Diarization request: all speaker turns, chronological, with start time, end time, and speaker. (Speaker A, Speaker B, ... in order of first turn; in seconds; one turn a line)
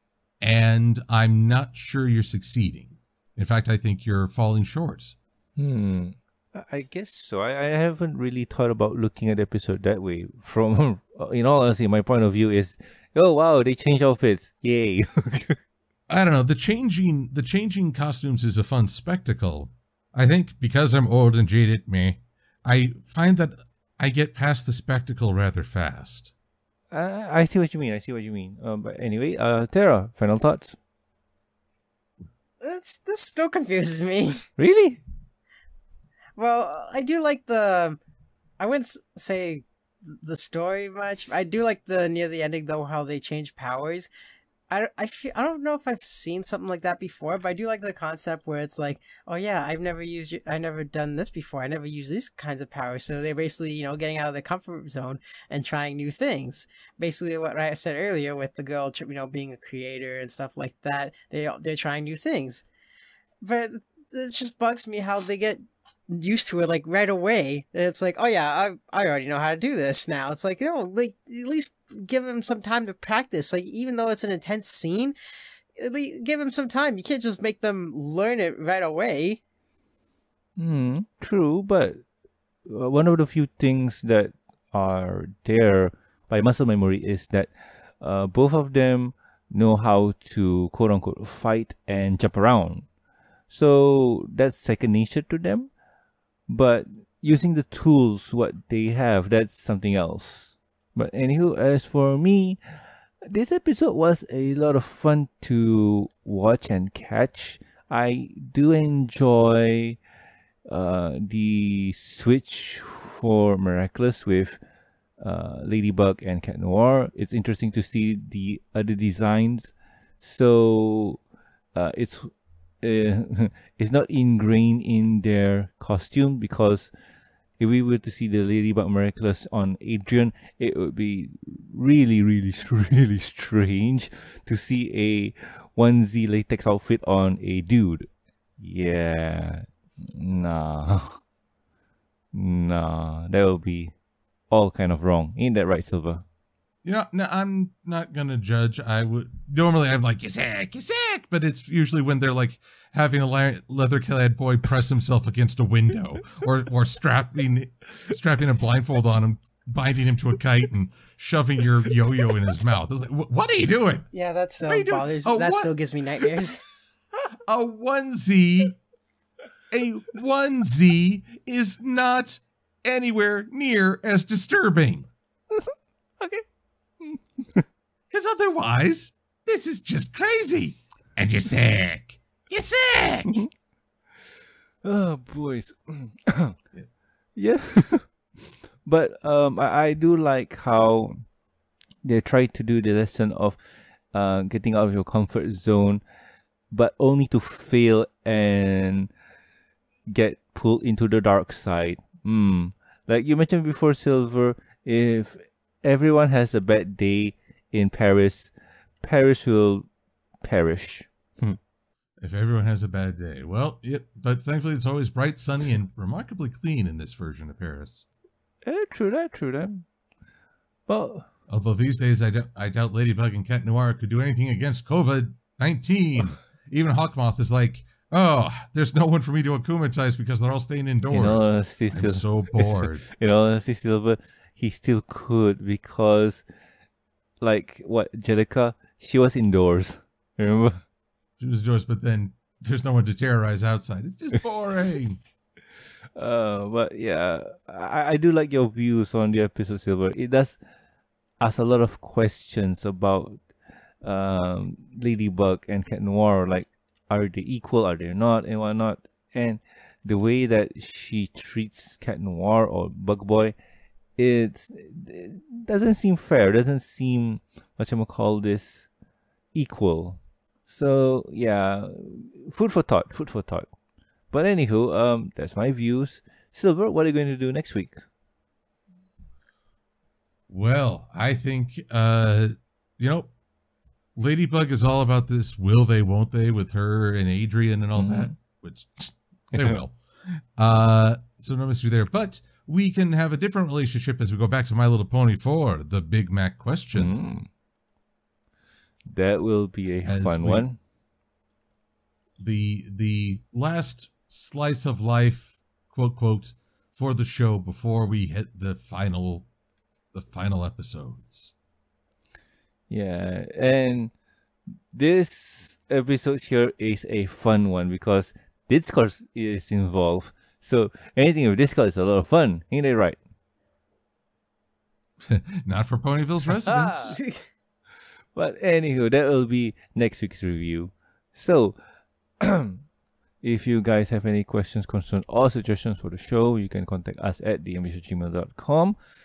Speaker A: 0.4-5.2
Speaker B: 5.6-15.6
Speaker A: 16.1-26.3
Speaker B: 26.9-30.8
Speaker C: 32.6-34.5
Speaker B: 34.6-35.0
Speaker C: 36.4-38.0
Speaker C: 38.6-44.1
Speaker C: 44.7-62.6
Speaker C: 63.4-75.2
Speaker C: 75.8-79.4
Speaker B: 80.6-82.0
Speaker B: 82.7-92.9
Speaker B: 93.5-95.7
Speaker B: 96.5-102.6
Speaker B: 103.2-110.0
Speaker B: 110.7-114.6
Speaker B: 115.2-121.2
Speaker B: 121.7-126.9
Speaker B: 127.6-141.2
Speaker B: 142.3-143.9
Speaker B: 144.5-146.2
Speaker A: 146.8-164.1
Speaker C: 164.1-166.6
Speaker A: 164.7-165.7
Speaker A: 167.4-168.8
Speaker A: 169.7-175.1
Speaker B: 175.5-176.4
Speaker B: 177.0-177.6
Speaker A: 178.1-183.4
Speaker B: 184.8-186.6
Speaker B: 187.3-191.2
Speaker B: 192.0-193.6
Speaker B: 194.1-196.0
Speaker B: 196.7-199.1
Speaker B: 200.1-209.9
Speaker B: 210.4-211.6
Speaker A: 212.2-218.1
Speaker B: 218.6-219.8
Speaker B: 220.9-221.3
Speaker A: 221.5-233.0
Speaker B: 231.1-236.4
Speaker B: 237.4-240.8
Speaker A: 241.4-245.2
Speaker B: 246.2-250.6
Speaker B: 251.4-253.4
Speaker B: 254.0-263.5
Speaker B: 264.2-268.9
Speaker B: 269.5-273.7
Speaker B: 274.3-278.0
Speaker A: 280.5-283.3
Speaker A: 284.1-297.1
Speaker B: 287.9-288.3
Speaker B: 296.9-297.5
Speaker B: 299.1-300.8
Speaker A: 300.0-300.7
Speaker A: 302.4-309.5
Speaker A: 310.1-311.5
Speaker B: 312.9-314.1
Speaker B: 314.9-323.2
Speaker A: 325.2-327.2
Speaker B: 326.6-327.2
Speaker C: 327.2-327.4
Speaker B: 328.3-331.8
Speaker B: 332.4-332.8
Speaker B: 333.4-338.9